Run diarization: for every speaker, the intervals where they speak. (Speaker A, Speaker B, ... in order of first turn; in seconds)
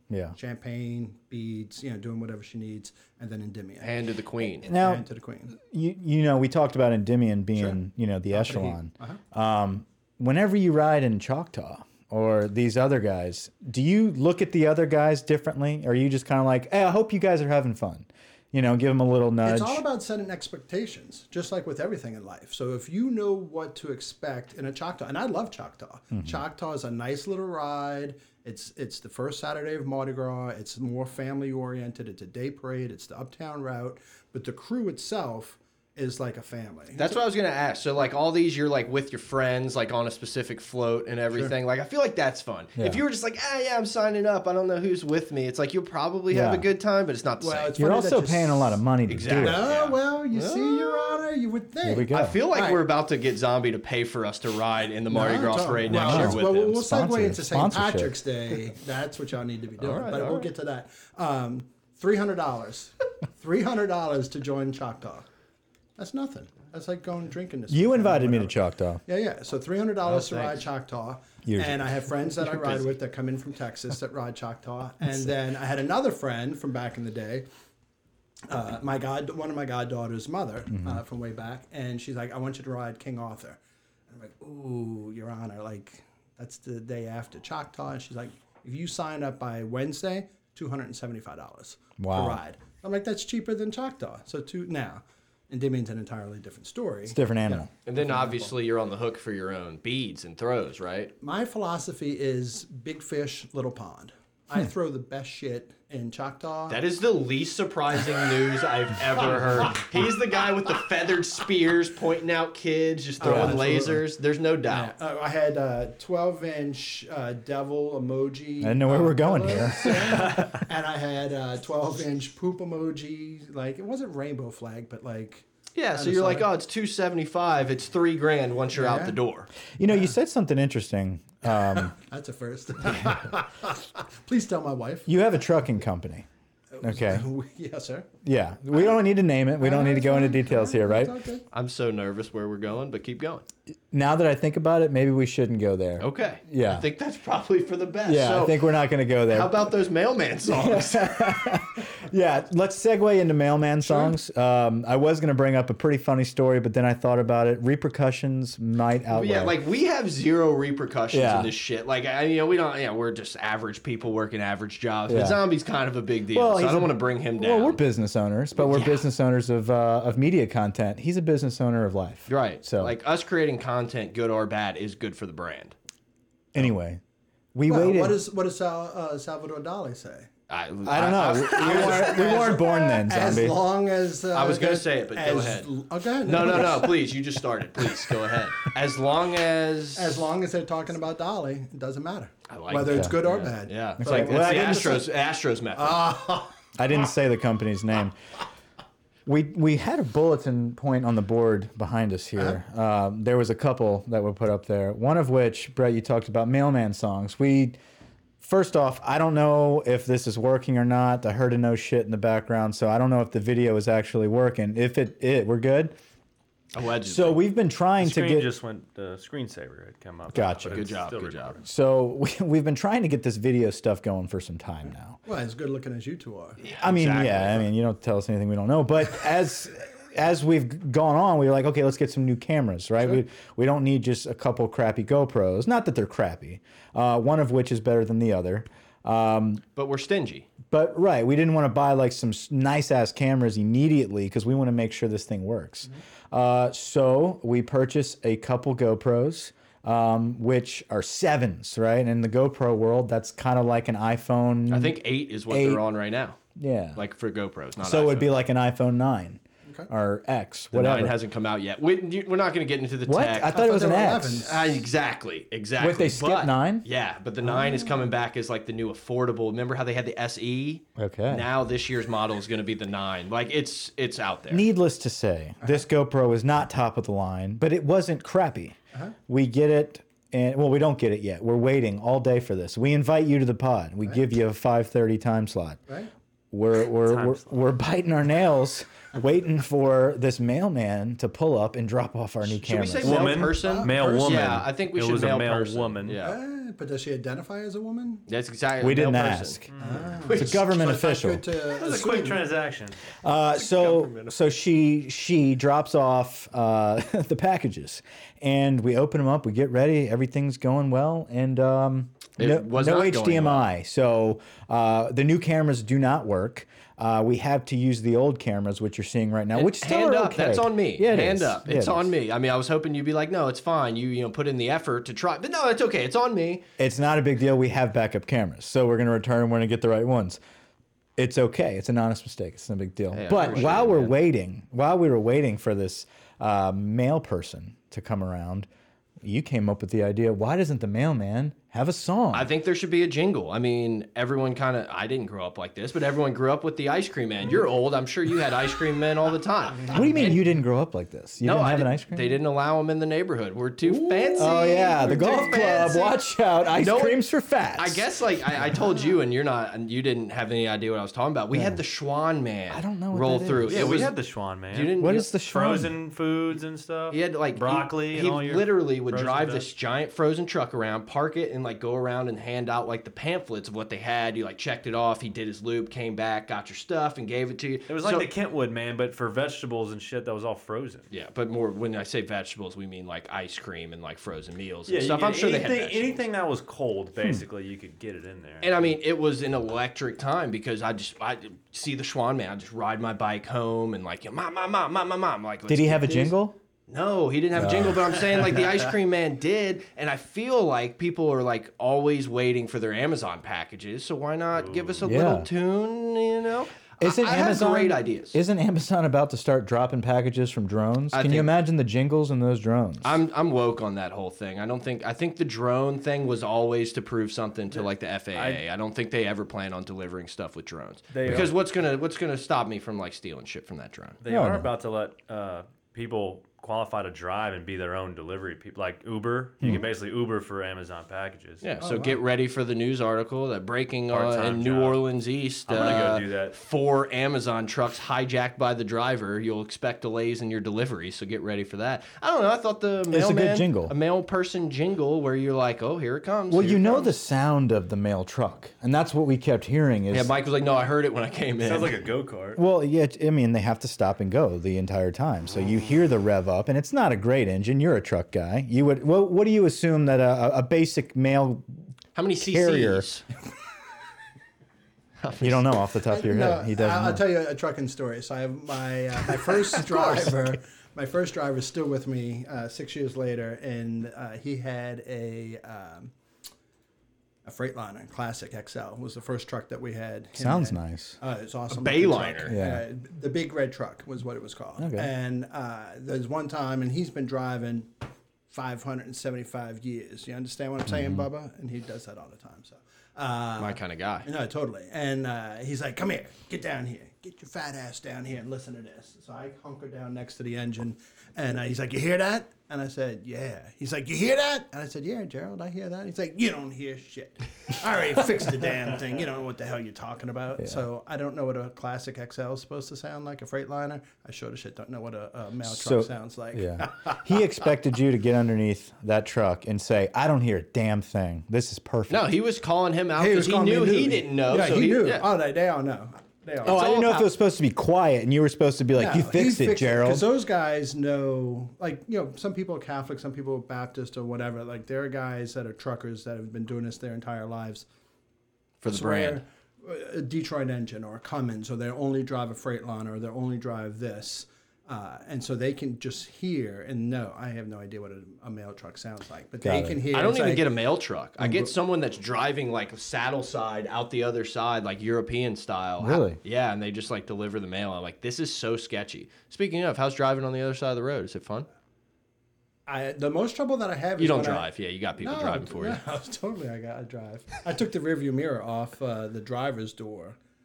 Speaker A: 0.1-0.3, 4.6-19.8, 46.3-46.6, 47.8-49.6, 51.8-52.4, 55.9-58.1, 67.7-69.0, 71.4-71.8, 80.7-81.0, 92.0-92.4, 97.1-97.7, 113.2-113.5, 118.6-120.5, 129.8-131.9, 135.1-136.2, 136.8-137.2, 138.2-141.2, 143.9-146.8, 148.1-149.6, 150.5-159.6, 161.1-161.5, 165.1-165.4, 166.3-172.9, 176.5-177.0, 177.5-178.2, 180.8-183.6, 192.9-193.2, 194.0-195.0, 196.8-198.2, 199.2-207.8, 208.4-215.9, 217.0-218.5, 220.3-220.9, 221.6-225.2, 226.8-239.6, 240.7-255.0, 255.5-255.8, 256.6-257.0, 257.8-261.1, 263.1-264.5, 265.8-266.9, 270.9-271.4, 274.5-285.8, 286.5-293.3, 298.8-299.7, 300.3-301.4, 303.2-322.1, 326.8-330.4, 331.2-338.7, 339.2-342.5, 349.9-352.4, 354.4-358.0, 361.5-361.8, 362.7-363.9, 365.0-365.9, 395.7-396.5, 397.6-398.0, 405.0-405.5, 407.0-413.2, 424.3-424.7, 443.1-443.9, 446.5-450.3, 452.6-461.6, 462.4-463.1, 465.4-467.2, 480.4-481.2, 482.4-482.8, 484.8-485.1, 490.9-491.2, 515.6-522.3, 526.6-530.2, 549.6-550.0, 556.0-556.4
Speaker B: 0.3-4.0, 4.6-5.5, 8.3-9.2, 19.4-37.1, 47.4-52.8, 55.1-65.3, 66.0-77.5, 78.5-83.6, 84.1-98.5, 101.2-106.8, 113.2-114.0, 114.7-126.5, 128.7-129.2, 131.7-135.1, 136.7-138.1, 139.6-141.4, 153.8-154.1, 177.7-180.3, 181.4-187.1, 189.9-195.1, 195.8-196.6, 225.2-226.6, 259.6-259.9, 263.5-264.8, 267.4-268.1, 293.5-294.5, 296.2-298.2, 299.8-302.5, 353.9-355.9, 431.8-432.2, 466.1-476.1, 477.4-487.9, 488.5-517.4, 523.2-526.9, 529.0-537.9, 538.9-550.7, 551.4-551.7, 562.9-570.4
Speaker C: 3.8-4.7, 37.0-47.7, 49.1-51.2, 52.1-56.8, 59.8-60.5, 70.0-70.6, 97.8-101.1, 106.7-114.9, 125.7-129.5, 141.5-143.4, 146.0-148.6, 149.3-151.5, 159.1-167.8, 168.6-169.1, 172.3-175.7, 180.5-182.3, 184.3-185.7, 186.2-190.3, 192.5-196.1, 216.7-217.4, 220.7-221.6, 226.6-227.7, 239.8-240.5, 254.7-256.4, 256.9-258.4, 260.7-263.6, 264.4-274.6, 292.6-296.4, 298.3-300.6, 303.6-304.3, 312.4-313.7, 319.5-326.6, 333.1-334.1, 342.3-350.4, 351.4-356.2, 356.8-357.2, 357.8-364.1, 364.7-365.3, 367.1-378.3, 381.1-386.2, 388.6-396.4, 396.9-408.4, 411.1-411.5, 413.0-424.2, 431.6-447.1, 450.1-452.1, 462.1-463.2, 465.2-465.7, 469.8-470.2, 481.7-482.6, 493.6-494.3, 522.1-525.3, 526.6-527.3, 538.8-539.4, 550.1-561.6, 564.2-566.0
Speaker D: 218.0-221.6, 287.0-287.4, 293.0-296.2, 299.7-300.1, 301.7-303.0, 363.7-369.7, 377.9-381.1, 384.9-388.9, 404.6-405.1, 417.7-418.6, 421.1-421.5, 424.2-431.6, 434.1-435.0, 435.7-436.5, 451.6-452.6